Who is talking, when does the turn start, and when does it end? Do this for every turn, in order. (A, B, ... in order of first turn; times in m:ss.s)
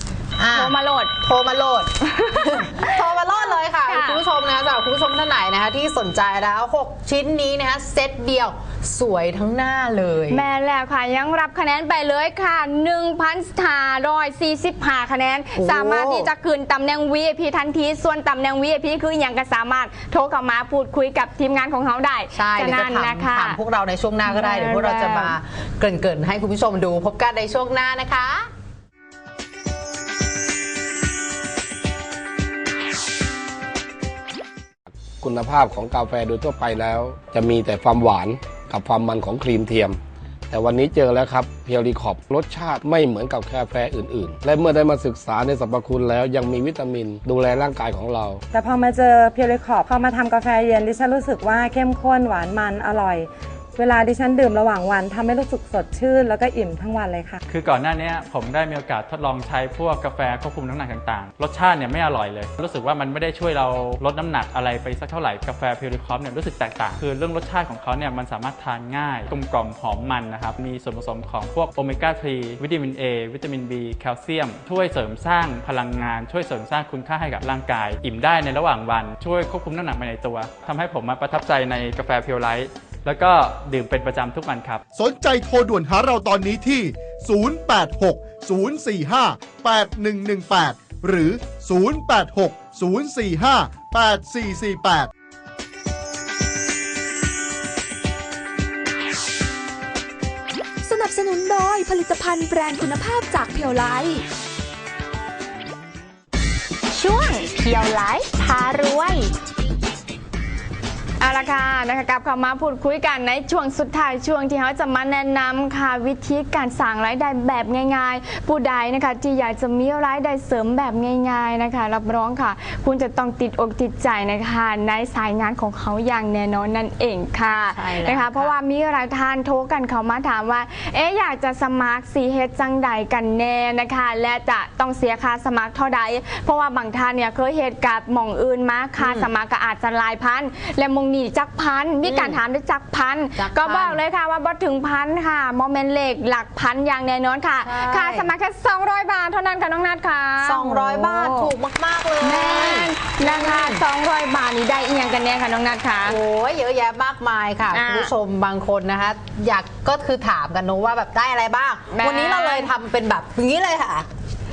0:00.4-0:10.4 A
0:00.5-0:01.1 B
0:02.0-0:04.2 B
0:10.3-0:23.6 B
0:15.6-0:16.3 A
0:22.3-0:28.5 A
0:24.2-0:25.4 B
0:35.2-0:48.4 C
0:48.5-0:57.4 D
0:57.5-1:24.8 E
1:24.9-1:35.1 F
1:40.8-1:44.2 G
1:46.9-1:49.3 A
1:51.2-2:31.5 B
2:07.5-2:08.5 A
2:19.0-2:19.3 A
2:22.0-2:22.4 A
2:23.4-2:24.0 A
2:27.6-2:28.3 A
2:30.4-2:33.8 A
2:32.2-2:36.2 B
2:36.0-2:44.1 A
2:37.7-2:38.1 B
2:41.9-2:42.7 B